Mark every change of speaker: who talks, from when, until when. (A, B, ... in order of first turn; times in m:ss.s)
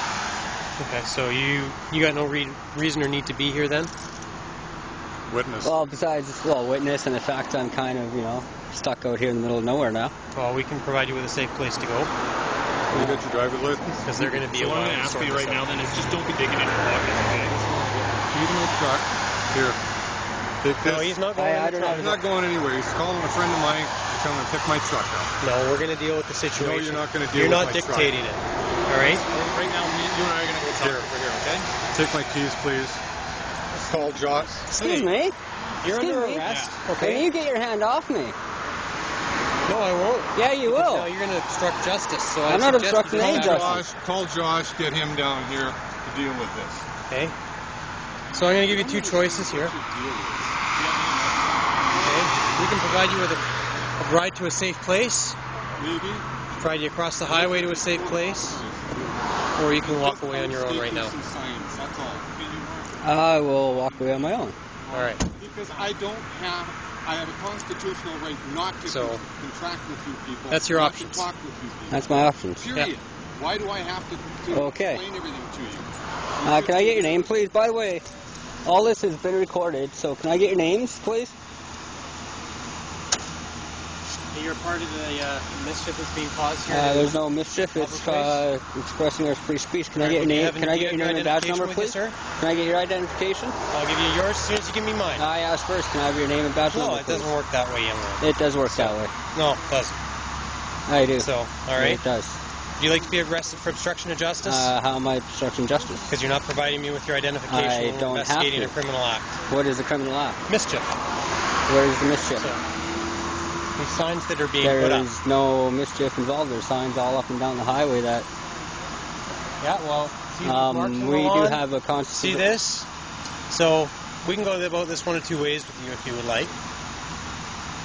0:00.8-0:03.9 A
0:05.3-0:05.9 B
0:05.6-0:10.1 C
0:10.3-0:12.1 A
0:12.9-0:14.4 B
0:12.9-0:13.2 C
0:14.0-0:15.6 A
0:14.5-0:17.6 D
0:17.5-0:19.8 B
0:20.6-0:21.2 B
0:20.8-0:22.1 A
0:21.3-0:22.2 C
0:21.8-0:25.3 B
0:25.4-0:29.2 A
0:26.6-0:28.2 B
0:29.0-0:31.7 D
0:30.8-0:31.1 A
0:31.9-0:33.0 B
0:33.8-0:34.7 B
0:34.7-0:35.3 C
0:34.8-0:35.1 A
0:35.8-0:37.3 A
0:35.9-0:38.3 C
0:36.4-0:36.8 D
0:39.6-0:43.8 A
0:40.3-0:41.1 C
0:42.4-0:43.8 C
0:43.1-0:46.9 B
0:47.1-0:47.4 A
0:48.3-0:49.7 A
0:48.6-0:52.2 B
0:51.9-0:53.4 A
0:54.0-0:55.4 A
0:55.7-0:56.3 B
0:56.5-0:58.6 A
0:57.2-1:03.0 B
0:59.6-1:01.1 A
1:03.0-1:04.5 C
1:04.8-1:17.4 B
1:04.9-1:05.2 A
1:08.8-1:09.2 A
1:10.5-1:11.3 A
1:11.9-1:12.7 C
1:14.5-1:15.0 C
1:16.4-1:18.0 C
1:18.6-1:21.3 C
1:24.3-1:27.2 A
1:26.7-1:33.6 C
1:27.7-1:28.4 A
1:30.0-1:32.2 A
1:33.7-1:35.2 A
1:35.2-1:37.3 C
1:36.6-1:40.0 A
1:38.2-1:39.1 C
1:40.9-1:42.4 C
1:41.2-1:42.0 A
1:42.8-1:44.7 A
1:44.4-1:46.1 C
1:46.1-1:49.4 A
1:47.4-1:48.8 C
1:49.5-1:50.4 C
1:50.5-1:51.0 A
1:51.7-1:52.5 C
1:52.3-1:52.6 A
1:53.8-1:55.1 A
1:54.6-1:58.3 C
1:59.6-2:02.9 A
2:00.4-2:02.6 C
2:03.5-2:06.5 A